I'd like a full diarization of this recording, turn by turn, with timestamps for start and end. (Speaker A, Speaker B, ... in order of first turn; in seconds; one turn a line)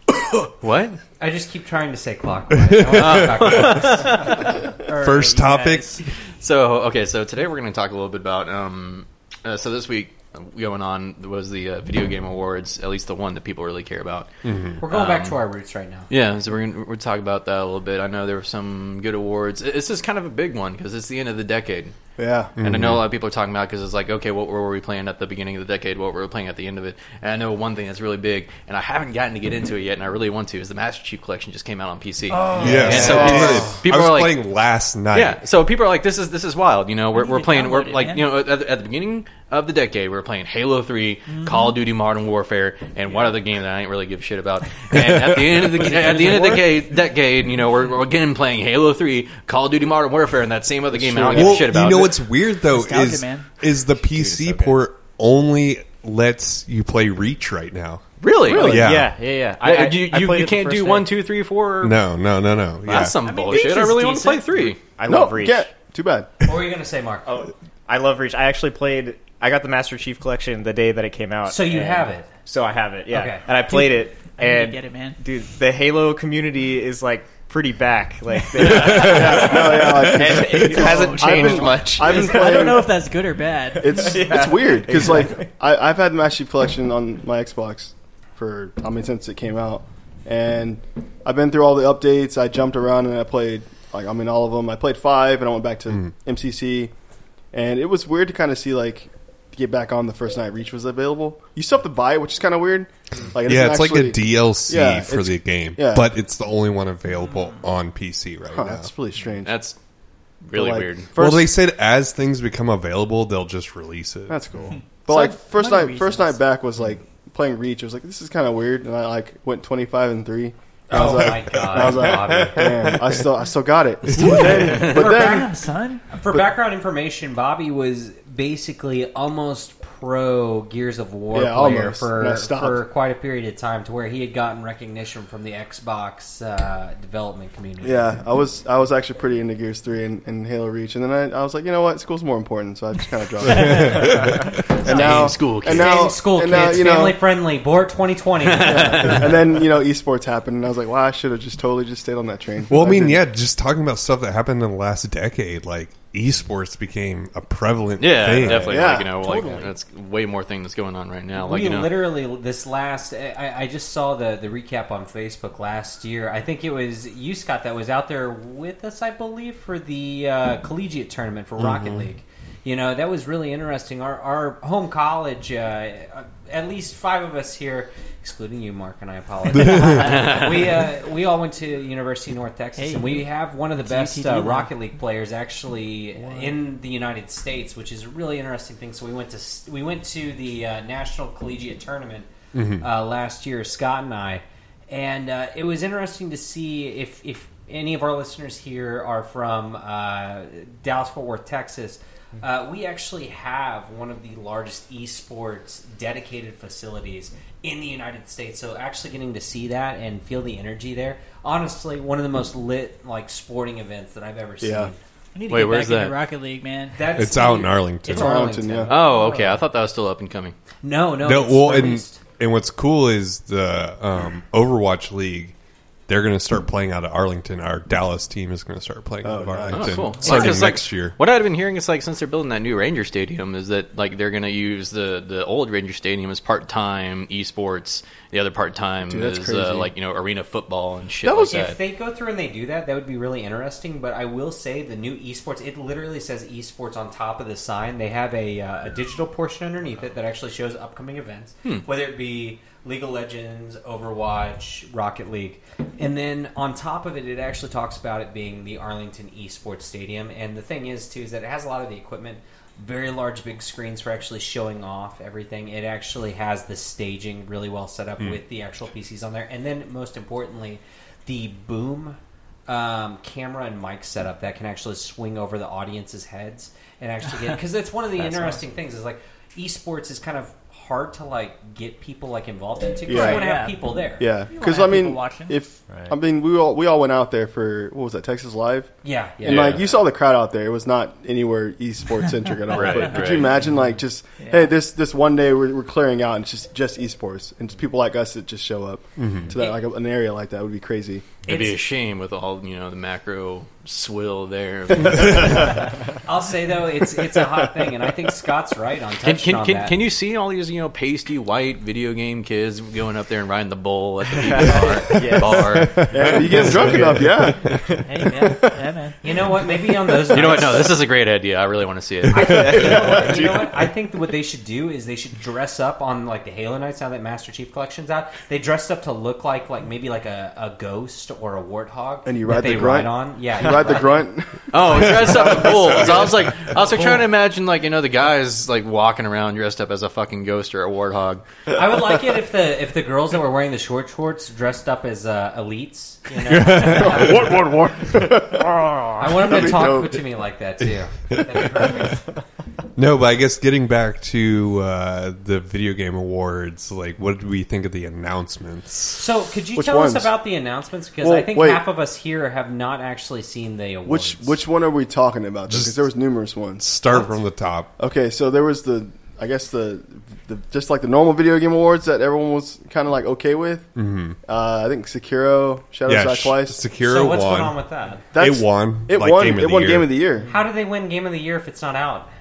Speaker A: 0.6-1.0
Speaker B: 1.2-4.1
Speaker C: 2.6-3.8
Speaker A: 2.9-4.4
Speaker D: 4.8-6.0
Speaker C: 4.9-6.0
Speaker A: 6.2-15.4
Speaker C: 14.4-14.8
Speaker B: 14.8-16.1
Speaker A: 16.1-21.9
Speaker E: 22.2-22.5
Speaker C: 22.6-23.0
Speaker A: 22.6-34.5
Speaker D: 32.3-33.3
Speaker C: 32.6-35.4
Speaker B: 32.8-33.1
Speaker E: 33.2-33.5
Speaker A: 35.1-52.2
Speaker D: 37.1-38.3
Speaker D: 41.3-41.8
Speaker C: 44.9-45.6
Speaker D: 45.7-46.9
Speaker E: 50.9-52.0
Speaker C: 51.3-59.1
Speaker D: 52.6-53.6
Speaker F: 54.0-54.8
Speaker A: 58.2-58.8
Speaker E: 58.5-59.0
Speaker F: 58.6-61.1
Speaker A: 59.6-62.0
Speaker C: 61.8-63.1
Speaker A: 62.8-64.8
Speaker D: 63.1-64.7
Speaker F: 64.7-65.7
Speaker E: 65.0-66.3
Speaker B: 66.4-67.4
Speaker F: 67.2-82.4
Speaker B: 71.5-72.3
Speaker B: 73.1-73.4
Speaker D: 73.5-75.2
Speaker A: 78.6-79.1
Speaker C: 78.7-79.8
Speaker E: 78.8-82.9
Speaker D: 80.8-84.3
Speaker E: 83.8-96.9
Speaker F: 84.0-85.5
Speaker E: 97.5-106.1
Speaker C: 103.5-108.9
Speaker D: 107.2-107.6
Speaker E: 108.5-109.6
Speaker A: 109.4-109.8
Speaker A: 110.4-111.1
Speaker E: 110.5-111.5
Speaker C: 111.2-114.4
Speaker E: 114.3-125.5
Speaker D: 114.8-116.4
Speaker B: 120.9-122.7
Speaker C: 121.9-123.0
Speaker C: 124.0-124.6
Speaker D: 124.1-126.0
Speaker B: 124.5-138.1
Speaker E: 131.3-132.8
Speaker E: 137.8-147.2
Speaker C: 143.4-144.6
Speaker A: 144.8-146.1
Speaker B: 144.8-149.3
Speaker A: 148.4-149.3
Speaker E: 148.6-153.2
Speaker C: 152.7-159.0
Speaker A: 158.0-161.9
Speaker E: 158.4-159.4
Speaker D: 159.2-159.7
Speaker B: 161.3-192.3
Speaker C: 171.6-172.1
Speaker D: 179.6-180.4
Speaker A: 179.9-180.7
Speaker D: 182.8-184.7
Speaker D: 186.2-186.5
Speaker C: 192.5-192.9
Speaker B: 192.8-215.0
Speaker E: 214.6-214.9
Speaker D: 215.3-217.1
Speaker A: 215.5-216.2
Speaker B: 216.9-219.4
Speaker C: 217.1-218.5
Speaker E: 218.1-218.9
Speaker A: 218.9-220.6
Speaker D: 219.1-219.5
Speaker B: 220.8-222.2
Speaker C: 221.2-225.5
Speaker C: 226.1-231.2
Speaker E: 229.2-230.2
Speaker A: 229.7-241.8
Speaker B: 230.2-230.6
Speaker E: 239.1-239.9
Speaker E: 241.2-241.6
Speaker B: 241.5-284.3
Speaker E: 283.1-283.5
Speaker D: 283.1-283.8
Speaker E: 284.2-301.3
Speaker D: 284.5-285.6
Speaker B: 289.0-289.8
Speaker A: 289.4-289.8
Speaker A: 292.7-293.6
Speaker D: 292.7-293.4
Speaker D: 294.4-294.7
Speaker C: 299.2-299.5
Speaker A: 301.4-305.9
Speaker C: 305.1-305.6
Speaker B: 306.1-310.0
Speaker A: 309.2-317.1
Speaker F: 314.4-318.6
Speaker C: 315.8-316.3
Speaker E: 316.1-317.7
Speaker D: 318.0-319.2
Speaker B: 319.2-321.0
Speaker A: 320.3-323.1
Speaker B: 322.3-334.3
Speaker F: 322.4-323.7
Speaker E: 332.2-336.3
Speaker A: 334.7-341.4
Speaker B: 334.9-337.3
Speaker B: 341.7-347.6
Speaker C: 346.4-347.8
Speaker E: 347.1-350.2
Speaker B: 349.1-352.2
Speaker C: 352.9-359.2
Speaker B: 359.1-364.6
Speaker E: 359.7-360.3
Speaker E: 361.2-361.9
Speaker E: 364.0-366.9
Speaker C: 365.7-366.0
Speaker C: 366.8-367.9
Speaker E: 368.0-373.9
Speaker C: 373.9-374.4
Speaker E: 374.4-376.8
Speaker C: 376.1-377.8
Speaker B: 377.0-378.2
Speaker E: 378.3-380.5
Speaker C: 378.4-380.1
Speaker B: 380.5-382.3